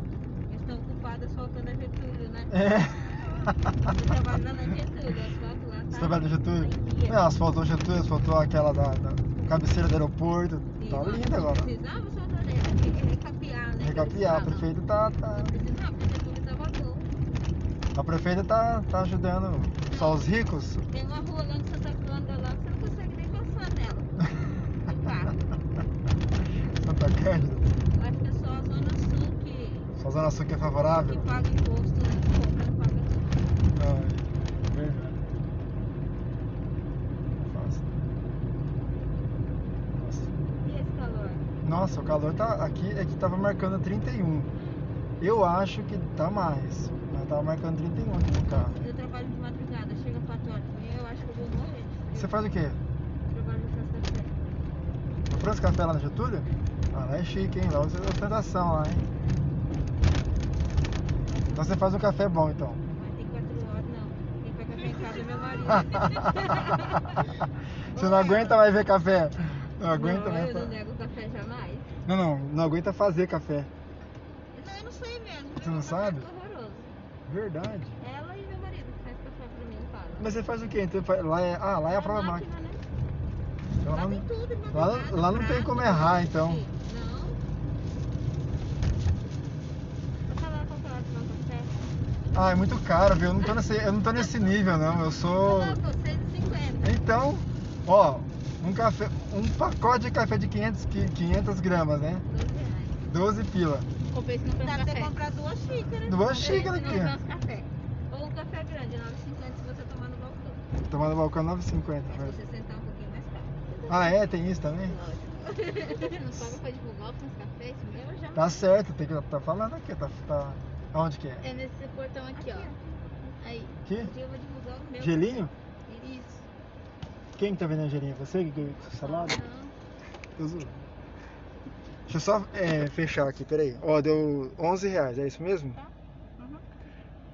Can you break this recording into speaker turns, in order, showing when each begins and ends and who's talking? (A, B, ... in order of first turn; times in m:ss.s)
0:00.5-0:07.3 A
0:02.5-0:03.7 B
0:05.9-0:11.7 B
0:10.8-0:14.7 A
0:13.8-0:15.5 B
0:15.3-0:17.1 A
0:17.9-0:20.8 B
0:19.9-0:20.3 A
0:20.9-0:25.4 A
0:26.8-0:27.7 B
0:27.9-0:29.9 A
0:30.0-0:31.4 B
0:30.8-0:33.5 A
0:33.7-0:35.2 B
0:37.4-0:37.9 B
0:40.0-0:40.3 B
0:40.6-0:41.5 A
0:41.6-0:44.5 B
0:44.5-0:44.8 A
0:45.2-0:48.8 B
0:48.4-0:52.5 A
0:52.1-0:52.8 B
0:53.3-0:55.2 A
0:55.3-0:59.1 B
1:01.2-1:01.8 A
1:01.5-1:02.8 B
1:02.9-1:07.3 A
1:05.7-1:07.0 B
1:07.9-1:08.8 A
1:07.9-1:10.7 B
1:09.9-1:11.9 A
1:12.0-1:13.7 B
1:14.5-1:17.0 A
1:15.6-1:16.3 B
1:17.2-1:18.0 B
1:18.0-1:20.3 A
1:20.2-1:22.4 B
1:21.8-1:22.8 A
1:23.8-1:26.6 B
1:23.9-1:27.4 A
1:30.3-1:31.9 A
1:32.3-1:35.8 B
1:35.2-1:37.0 A
1:36.8-1:42.2 B
1:42.2-1:43.0 A
1:43.1-1:43.9 B
1:44.0-1:45.2 C
1:44.6-1:47.2 A
1:46.0-1:47.2 B
1:46.2-1:47.7 C
1:48.1-1:50.6 A
1:50.9-1:52.4 B
1:52.1-1:56.2 A
1:53.9-1:55.0 B
1:55.8-1:58.2 C
1:57.9-1:58.6 A
1:58.3-2:01.4 B
2:01.4-2:02.7 C
2:02.3-2:03.4 A
2:03.4-2:03.8 C
2:03.8-2:04.1 B
2:04.0-2:06.2 A
2:05.0-2:05.5 B
2:06.0-2:06.4 C
2:07.4-2:09.4 B
2:09.0-2:09.7 C
2:10.4-2:10.8 B
2:12.1-2:15.8 B